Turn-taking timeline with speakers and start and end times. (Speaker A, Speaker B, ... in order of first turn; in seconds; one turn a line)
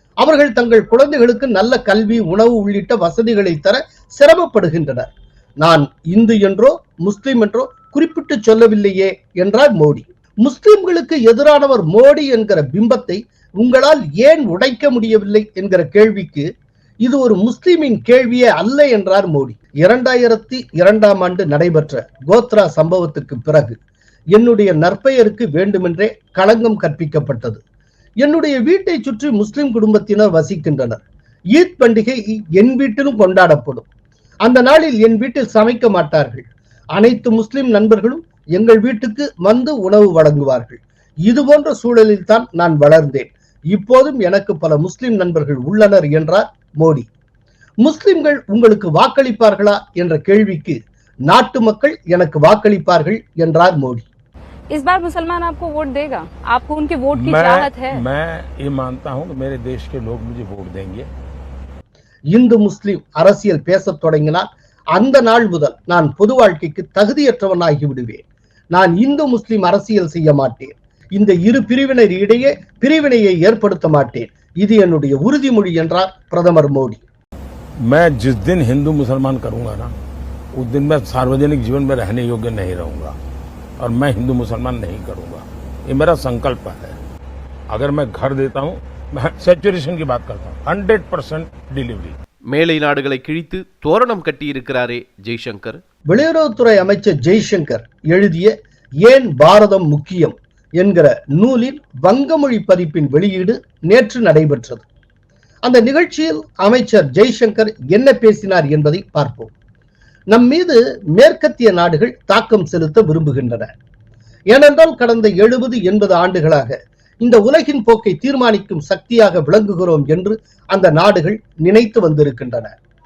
Speaker A: 0.2-16.5
Speaker A: 17.0-23.8
Speaker A: 24.3-27.6
Speaker A: 28.2-33.9
Speaker A: 34.4-47.1
Speaker A: 47.8-54.1
Speaker B: 54.7-58.0
Speaker C: 57.2-61.1
Speaker A: 62.3-77.0
Speaker C: 77.8-79.9
Speaker C: 80.5-83.2
Speaker C: 83.8-87.0
Speaker C: 87.7-92.2
Speaker D: 92.5-95.8
Speaker A: 96.1-104.8
Speaker A: 105.6-109.5
Speaker A: 110.3-113.7
Speaker A: 114.5-122.7